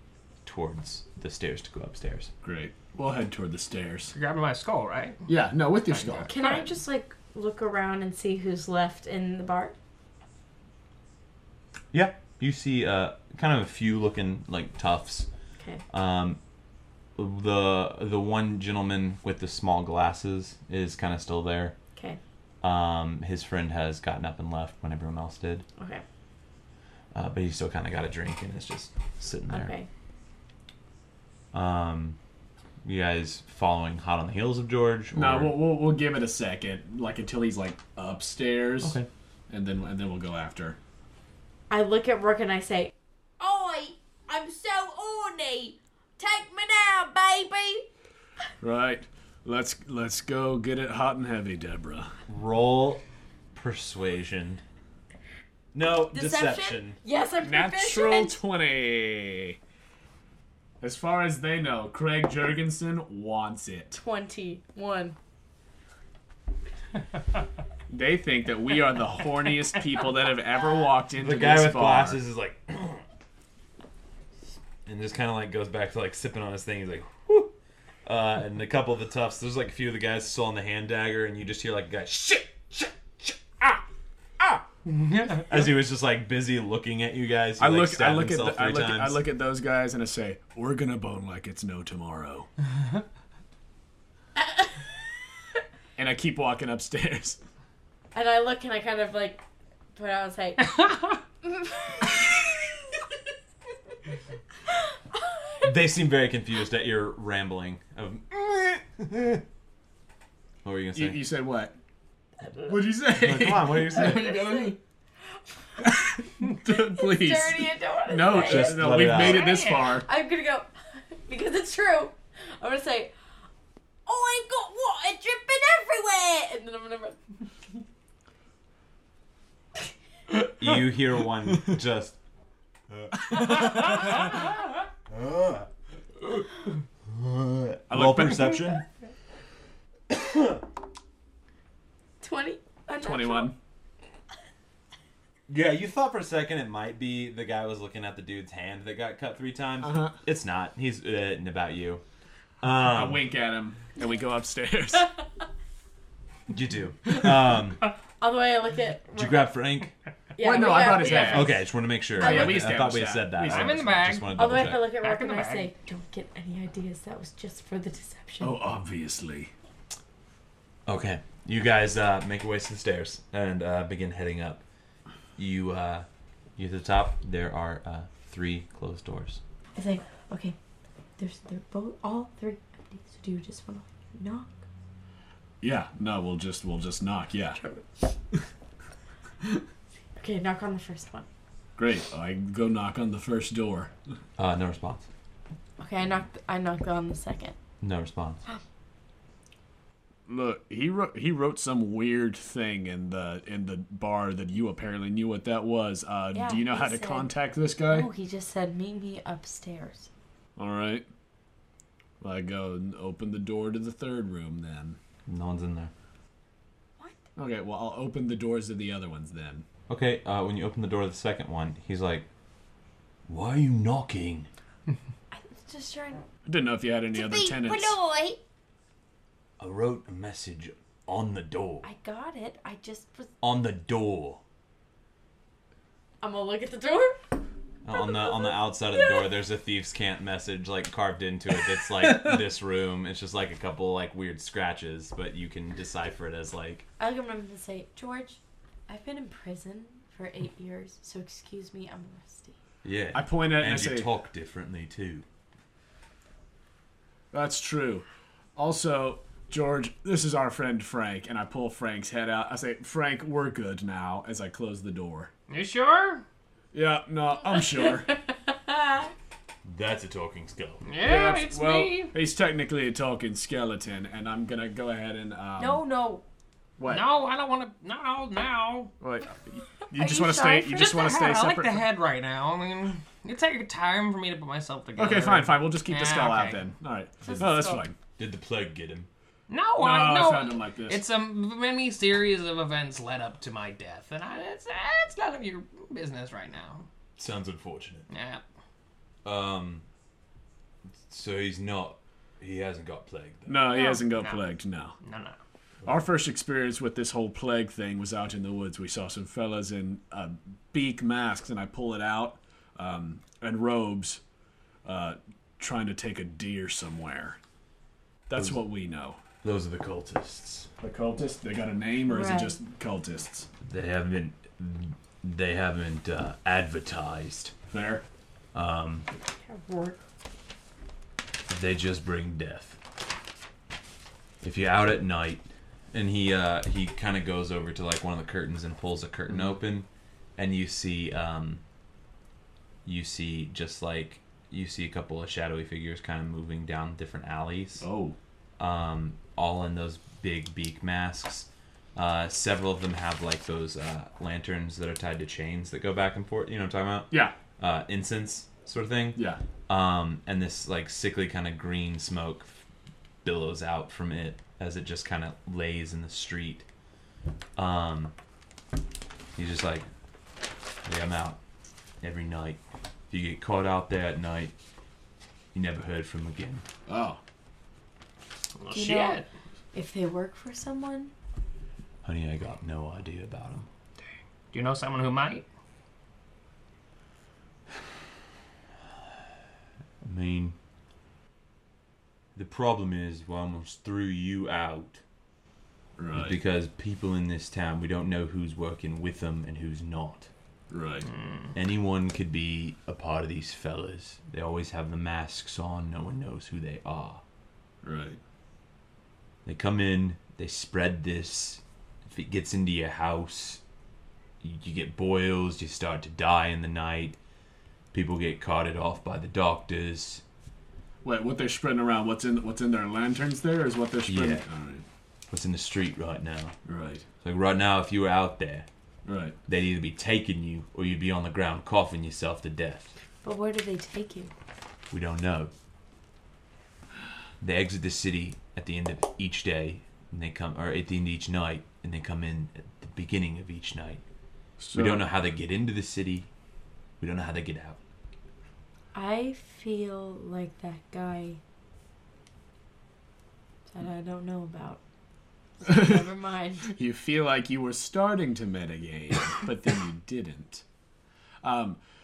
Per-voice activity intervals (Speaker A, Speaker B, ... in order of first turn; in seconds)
Speaker A: 0.4-2.3, 11.9-15.3, 15.9-16.4, 17.1-21.7, 22.6-25.6, 27.1-29.7, 31.5-32.2, 32.8-35.6, 38.8-39.1, 52.3-54.6, 55.7-57.0, 71.2-73.0, 74.8-77.5, 78.0-83.8, 85.5-89.2, 105.6-109.4, 110.6-111.2, 113.1-114.3, 118.3-119.5, 130.6-132.2, 132.9-134.0, 135.1-135.7, 137.1-138.8, 140.1-140.6, 145.5-152.0, 152.6-153.3, 156.5-157.9, 159.1-159.9, 161.2-164.9, 170.8-174.6, 175.4-179.4, 194.4-195.1, 197.8-198.4, 215.3-215.9, 219.9-222.3, 223.3-224.5, 229.6-231.9, 233.4-234.4, 237.8-246.8, 252.8-255.2, 269.6-270.8, 288.2-289.1, 297.2-298.1, 299.2-299.8, 301.0-303.6, 318.3-318.7, 319.4-320.7, 323.6-327.5, 328.5-329.1, 331.5-332.8, 334.4-341.6, 342.8-347.8, 348.6-362.6, 363.2-366.6, 367.6-368.1, 369.4-369.9, 370.8-371.4, 372.0-374.5, 375.5-376.6, 382.0-383.7, 390.0-390.6, 392.3-395.0, 396.1-400.3, 401.5-407.2, 409.4-413.6, 414.4-417.2, 417.9-420.2, 424.1-424.4, 425.3-426.5, 427.2-428.7, 429.5-433.0, 434.9-435.5, 437.4-444.0, 444.7-446.3, 447.0-447.8
Speaker B: 2.4-4.1, 5.3-6.3, 35.1-39.0, 39.5-40.8, 48.6-52.1, 57.4-59.6, 60.8-64.0, 67.9-72.2, 87.6-92.5, 96.0-97.4, 110.9-111.7, 112.7-114.8, 115.8-120.0, 133.3-133.6, 137.9-138.8, 143.0-143.6, 149.8-150.1, 152.8-155.1, 160.4-161.6, 162.2-163.9, 168.4-169.5, 185.6-187.6, 191.8-193.9, 200.3-208.1, 210.6-211.1, 212.2-215.0, 217.3-219.6, 226.4-228.0, 253.1-254.1, 257.3-258.0, 258.6-265.3, 266.7-268.1, 271.0-275.8, 276.8-277.1, 279.0-281.9, 285.0-287.9, 289.8-291.0, 303.4-304.9, 305.9-314.2, 314.8-317.4, 318.3-319.2, 320.8-323.5, 327.7-328.0, 347.8-348.1, 357.1-357.4, 359.1-359.4, 376.9-377.2, 396.0-396.4, 400.7-401.1, 407.8-408.2, 421.0-424.8, 426.6-427.0, 429.0-429.3, 444.6-445.1, 455.6-456.0, 456.6-460.6, 461.4-461.8
Speaker C: 4.1-5.3, 5.9-6.6, 84.9-85.5, 119.1-120.0, 163.4-165.7, 265.5-266.2, 270.8-272.1, 276.9-278.9, 280.8-286.6, 289.5-296.9, 298.1-298.4, 303.9-304.4, 305.0-305.4, 378.6-379.3, 384.5-385.4, 401.1-401.5
Speaker D: 6.3-9.7, 21.9-22.2, 25.8-26.0, 29.5-29.9, 41.7-47.9, 56.1-58.4, 63.9-65.2, 98.1-99.4, 99.9-102.3, 114.2-114.7, 116.7-119.0, 119.9-123.1, 124.0-127.2, 142.2-143.5, 158.2-159.5, 160.4-161.7, 162.2-162.6, 164.3-168.6, 179.8-180.6, 181.2-184.5, 187.6-187.8, 190.2-191.2, 195.8-197.6, 206.3-207.3, 207.9-210.1, 225.3-226.2, 227.1-228.4, 231.8-233.3, 236.2-237.2, 237.9-239.3, 247.0-252.6, 267.5-269.1, 275.6-276.2, 279.9-281.1, 287.2-287.8, 303.7-304.0, 322.1-322.6, 329.4-330.0, 378.7-379.2, 379.7-381.1, 433.2-434.3, 448.9-451.4, 453.7-454.8, 455.6-456.7